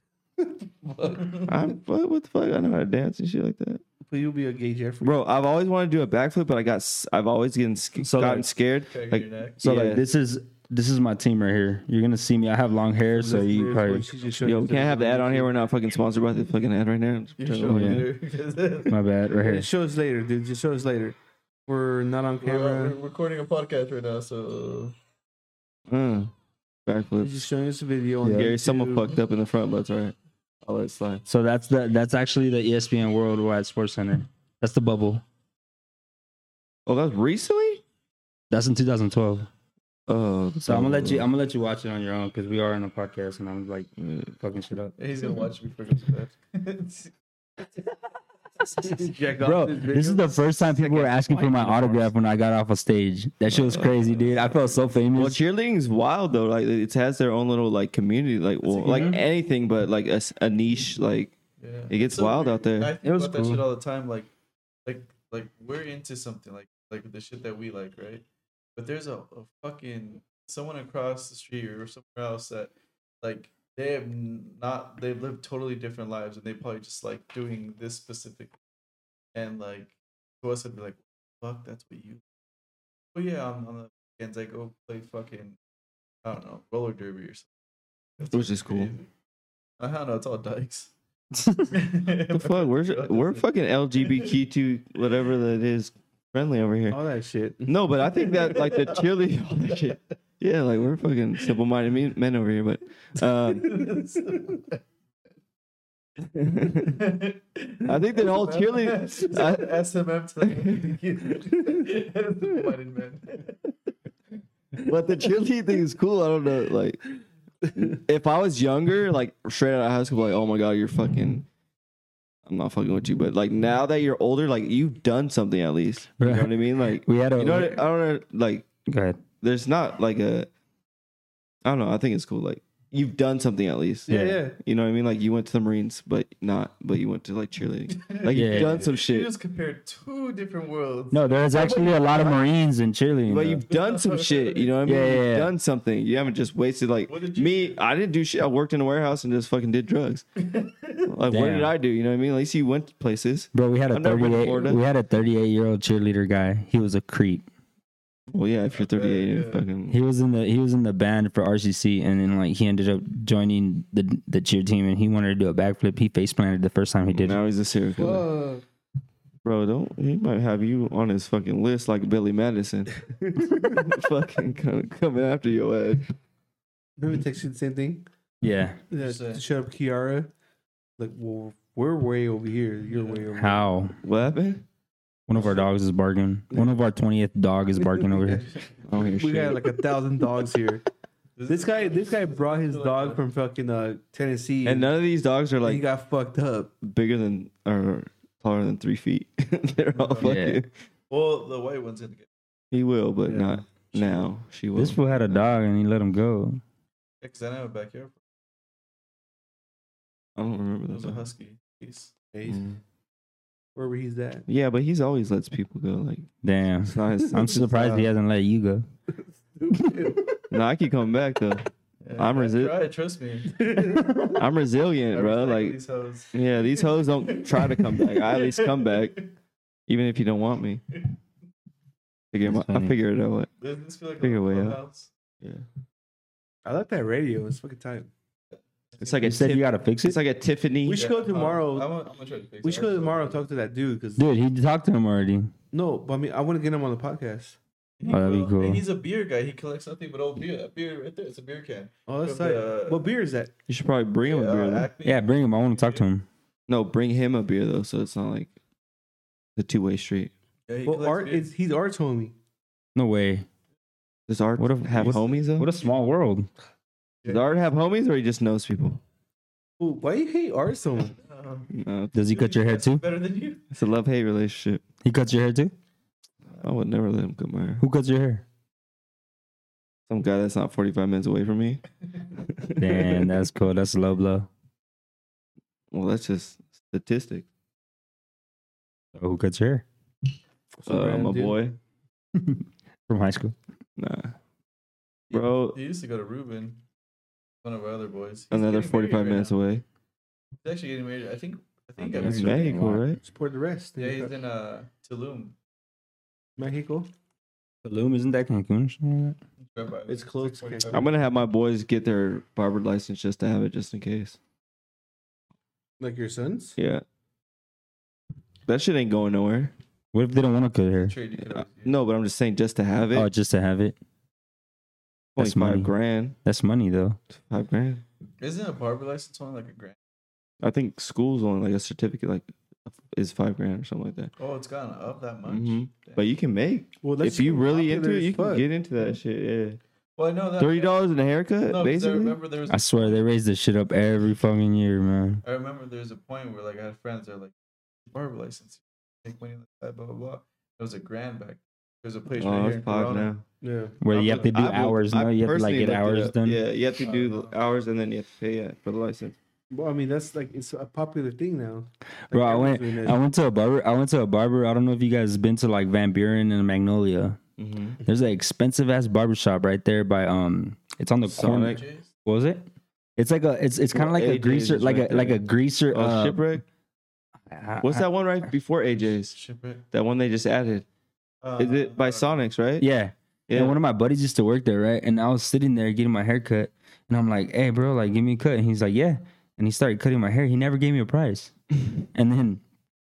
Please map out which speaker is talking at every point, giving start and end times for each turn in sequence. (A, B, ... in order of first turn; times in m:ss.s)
0:00.8-0:01.4 A
0:01.4-0:03.8 B
0:04.0-0:05.2 A
0:05.0-0:10.0 B
0:08.0-0:08.5 C
0:08.9-0:09.6 D
0:09.6-0:14.1 C
0:13.1-0:15.5 A
0:14.4-0:18.1 B
0:17.4-0:19.0 D
0:17.7-0:18.0 C
0:18.9-0:19.7 C
0:19.4-0:23.0 A
0:22.4-0:24.9 D
0:25.9-0:26.3 B
0:26.8-0:27.4 B
0:27.2-0:29.1 A
0:28.2-0:28.5 C
0:28.2-0:31.2 B
0:31.2-0:35.2 C
0:36.8-0:37.8 B
0:38.5-0:39.5 C
0:40.1-0:41.3 B
0:40.6-0:44.9 C
0:44.0-0:44.3 B
0:45.0-0:47.1 D
0:48.7-0:50.6 A
0:49.4-0:55.4 C
0:51.0-0:52.0 B
0:53.5-0:54.0 B
0:54.2-0:54.5 D
0:55.1-1:01.3 B
0:58.7-0:59.2 D
0:58.9-0:59.1 A
1:01.6-1:04.3 D
1:01.9-1:02.9 B
1:03.0-1:03.6 C
1:04.8-1:08.2 D
1:08.8-1:18.5 D
1:19.3-1:22.2 D
1:23.1-1:25.6 D
1:26.2-1:27.5 D
1:28.2-1:29.1 D
1:28.3-1:28.9 B
1:29.8-1:30.9 D
1:31.3-1:31.7 C
1:31.7-1:33.4 D
1:32.3-1:37.0 B
1:34.0-1:34.3 D
1:36.9-1:37.7 A
1:37.6-1:43.9 B
1:38.2-1:39.0 D
1:39.6-1:39.9 D
1:43.5-1:44.8 D
1:46.2-1:47.0 B
1:46.8-1:53.6 D
1:47.8-1:49.8 B
1:50.4-1:50.9 B
1:54.8-1:57.1 B
1:57.7-2:01.4 B
2:02.4-2:08.6 B
2:06.2-2:07.8 C
2:08.9-2:09.2 C
2:09.4-2:10.5 B
2:11.6-2:19.3 B
2:14.1-2:14.6 A
2:14.1-2:14.4 C
2:17.9-2:22.3 D
2:18.3-2:18.8 C
2:21.1-2:23.6 C
2:23.3-2:30.2 B
2:23.7-2:24.7 D
2:24.8-2:25.5 C
2:27.1-2:27.8 D
2:30.4-2:31.1 D
2:31.1-2:34.8 B
2:31.3-2:31.7 C
2:33.5-2:37.4 C
2:38.3-2:40.0 B
2:38.7-2:39.6 D
2:39.9-2:47.4 C
2:47.1-2:48.3 B
2:48.0-2:48.6 A
2:49.4-2:56.1 B
2:53.3-2:54.0 A
2:57.0-2:58.0 A
2:58.4-2:58.8 C
2:58.9-3:00.3 A
2:58.9-2:59.4 D
3:01.0-3:03.8 A
3:02.9-3:03.2 D
3:03.3-3:04.0 C
3:04.0-3:04.6 B
3:05.3-3:08.5 C
3:05.4-3:05.6 A
3:06.5-3:06.8 A
3:07.8-3:08.5 A
3:08.9-3:09.8 B
3:09.0-3:10.8 A
3:11.4-3:13.2 D
3:11.5-3:14.9 A
3:14.6-3:15.8 B
3:15.6-3:16.7 A
3:16.8-3:20.7 B
3:19.9-3:20.4 D
3:20.2-3:20.6 C
3:21.1-3:22.3 D
3:22.7-3:25.4 B
3:23.2-3:23.6 A
3:24.8-3:26.6 C
3:27.2-3:28.2 D
3:30.4-3:31.3 B
3:30.9-3:32.1 D
3:32.3-3:32.6 A
3:32.5-3:32.8 B
3:33.7-3:34.4 A
3:34.5-3:36.3 B
3:36.4-3:38.8 C
3:36.8-3:38.1 B
3:39.5-3:40.4 A
3:39.7-3:40.1 C
3:40.5-3:41.6 B
3:42.0-3:44.0 D
3:42.2-3:42.7 B
3:43.5-3:44.4 A
3:44.3-3:45.8 B
3:45.1-3:49.2 D
3:46.3-3:49.2 B
3:49.9-3:50.8 B
3:52.3-3:53.5 B
3:52.4-3:52.9 C
3:53.6-3:55.1 D
3:54.2-3:54.8 B
3:56.6-3:58.1 A
3:58.5-3:59.4 D
3:59.0-4:01.0 B
3:59.2-4:00.2 C
4:00.8-4:01.9 A
4:01.0-4:03.4 D
4:02.6-4:04.3 A
4:04.2-4:05.5 C
4:05.7-4:07.6 A
4:08.0-4:13.1 D
4:08.1-4:08.8 C
4:12.1-4:13.5 A
4:13.7-4:14.9 B
4:14.2-4:16.0 D
4:15.0-4:16.2 C
4:16.7-4:18.5 B
4:19.6-4:20.3 B
4:20.7-4:21.5 D
4:20.8-4:22.3 A
4:22.9-4:23.4 C
4:24.3-4:25.7 B
4:24.6-4:26.5 C
4:27.2-4:27.5 D
4:27.3-4:29.0 B
4:29.8-4:31.2 A
4:31.2-4:31.7 D
4:31.7-4:32.1 B
4:32.1-4:33.0 C
4:32.2-4:33.6 D
4:33.7-4:34.8 B
4:35.0-4:35.7 C
4:36.6-4:37.8 B
4:37.8-4:38.4 C
4:40.1-4:41.8 B
4:42.4-4:43.4 B
4:42.8-4:44.5 C
4:45.9-4:47.4 B
4:49.1-4:49.8 C
4:50.8-4:51.7 A
4:50.9-4:51.7 B
4:52.3-4:53.5 C
4:54.0-4:54.3 B
4:55.3-4:55.8 B
4:55.4-4:56.8 D
4:57.6-4:59.6 D
4:58.5-4:59.8 B
5:00.6-5:02.9 D
5:02.0-5:03.0 C
5:02.2-5:03.2 B
5:03.2-5:04.3 A
5:04.0-5:05.6 D
5:06.6-5:07.1 A
5:07.8-5:09.4 C
5:09.6-5:11.1 D
5:10.1-5:11.1 A
5:10.9-5:14.4 B
5:16.0-5:16.8 A
5:16.8-5:17.0 B
5:18.7-5:19.7 B
5:20.1-5:21.1 C
5:21.0-5:21.9 D
5:21.4-5:23.3 B
5:23.1-5:24.0 C
5:25.3-5:26.3 B
5:25.4-5:25.9 C
5:26.4-5:27.2 C
5:27.3-5:28.0 B
5:28.4-5:30.0 D
5:30.6-5:32.5 B
5:33.0-5:34.3 B
5:34.4-5:36.2 D
5:35.5-5:39.8 B
5:37.0-5:38.6 A
5:40.2-5:41.0 D
5:40.6-5:42.4 B
5:41.6-5:43.2 D
5:42.7-5:45.4 C
5:45.4-5:47.5 D
5:48.1-5:53.3 D
5:52.4-5:53.4 B
5:53.6-5:54.0 A
5:54.0-5:56.6 C
5:54.1-5:59.4 B
5:57.0-5:57.6 D
5:59.7-6:03.2 A
6:02.3-6:07.4 C
6:07.6-6:08.0 B
6:08.0-6:12.6 C
6:11.2-6:11.8 B
6:11.5-6:12.1 D
6:13.2-6:16.4 C
6:13.9-6:16.6 B
6:17.5-6:18.0 C
6:17.8-6:19.4 B
6:19.0-6:19.8 D
6:19.9-6:20.8 B
6:21.4-6:22.4 D
6:21.6-6:22.9 B
6:22.8-6:31.5 C
6:23.5-6:23.8 B
6:32.1-6:32.6 C